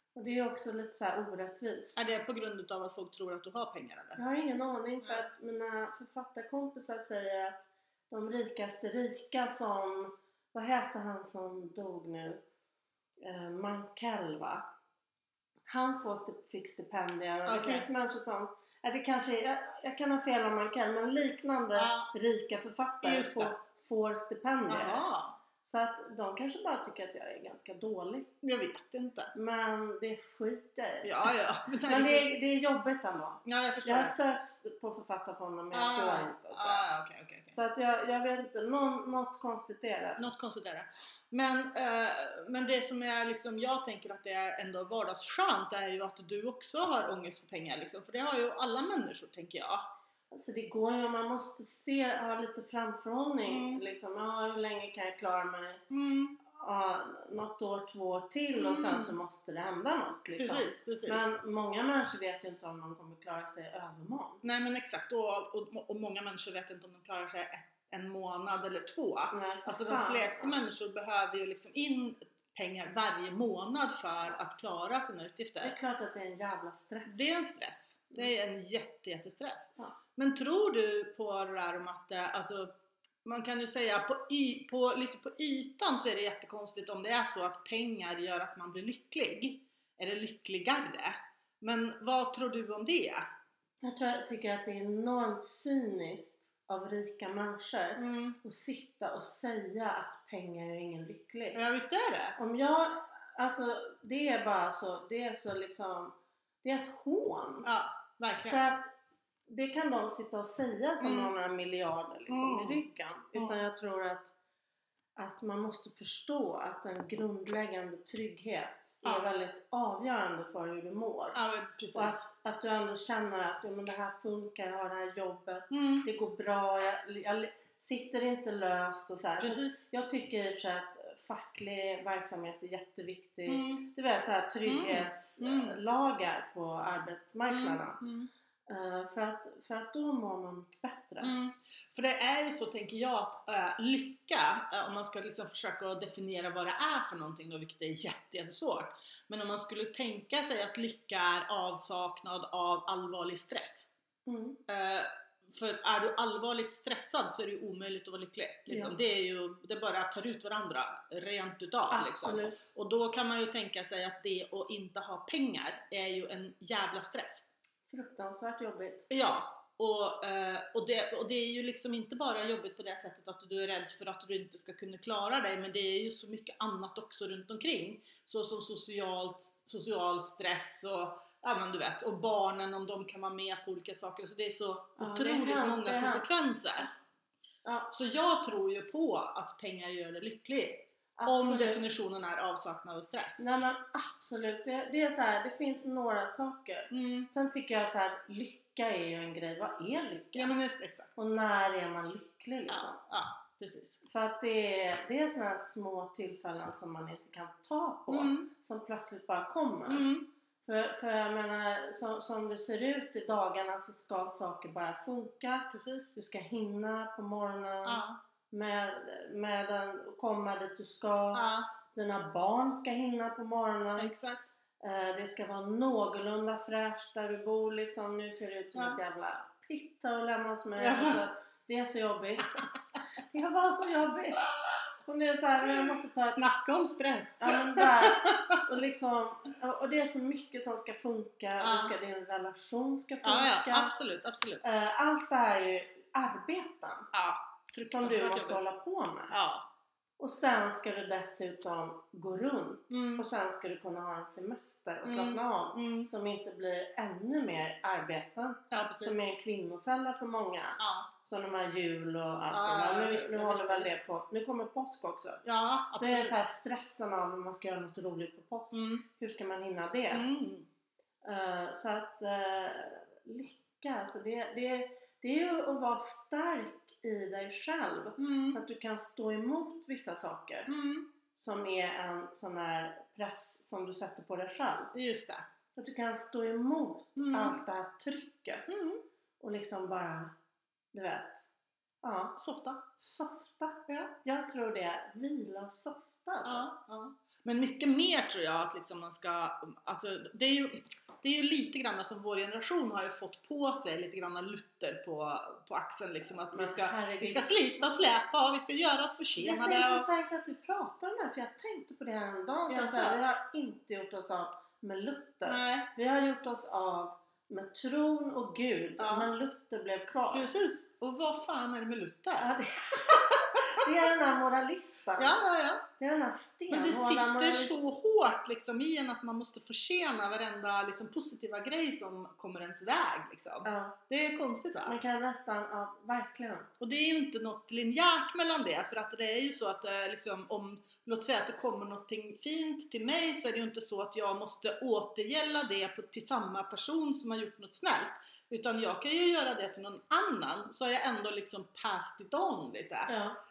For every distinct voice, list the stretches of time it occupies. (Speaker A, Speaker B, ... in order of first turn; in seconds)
Speaker A: 0.1-1.9, 4.2-12.4, 13.2-14.6, 15.7-25.0, 25.6-28.3, 29.3-31.3, 31.9-36.9, 37.5-40.2, 50.3-55.8, 56.5-64.4, 69.3-70.6, 75.6-77.3, 93.8-101.6, 102.3-107.7, 108.5-108.9, 109.5-114.3, 115.2-121.4, 121.9-138.0, 138.7-141.3, 154.2-154.6, 158.7-158.9, 161.9-162.7, 167.9-169.1, 185.0-186.2, 187.6-187.9, 191.2-191.8, 193.4-200.5, 201.2-203.0, 204.0-210.1, 210.6-224.1, 224.8-232.7, 233.3-234.4, 235.0-236.6, 237.4-243.9, 244.6-247.1, 247.9-249.3, 250.2-265.4, 266.0-270.3, 271.2-280.7, 281.4-284.9, 285.8-288.8, 289.4-290.3, 290.9-291.5, 292.0-292.4, 293.0-296.7, 306.5-307.6, 309.4-320.5, 322.4-325.4, 326.0-327.8, 333.6-333.9, 334.9-336.7, 353.1-353.4
Speaker B: 1.9-4.2, 5.0-5.3, 17.5-17.9, 21.7-22.1, 23.0-23.5, 24.7-25.4, 28.4-29.3, 31.0-32.2, 33.4-34.1, 35.7-37.5, 40.2-49.9, 53.5-53.8, 55.9-56.4, 58.6-59.1, 60.4-61.2, 64.4-75.7, 77.1-93.2, 98.0-98.4, 101.5-102.4, 107.6-108.6, 111.0-111.3, 112.3-112.8, 121.3-122.2, 125.7-126.0, 129.4-129.8, 133.5-133.9, 134.7-135.8, 137.5-138.3, 141.2-153.9, 154.7-167.4, 169.1-186.9, 187.9-193.4, 196.9-197.3, 200.3-201.1, 202.7-204.0, 208.1-208.5, 209.9-210.3, 215.7-216.1, 217.8-218.2, 221.3-221.7, 224.0-224.5, 230.8-231.2, 236.2-238.6, 241.6-241.9, 243.2-244.6, 247.1-248.6, 249.3-249.7, 252.9-253.2, 255.0-256.1, 258.7-259.2, 260.8-261.1, 262.5-263.9, 265.4-266.3, 268.7-269.0, 270.1-270.7, 278.2-278.6, 280.7-281.1, 284.9-285.4, 287.1-287.6, 288.7-289.0, 292.4-292.8, 293.9-294.1, 296.4-310.1, 312.7-313.2, 315.4-315.9, 319.0-319.3, 320.3-322.5, 323.1-323.9, 325.2-325.9, 326.7-335.0, 336.8-353.1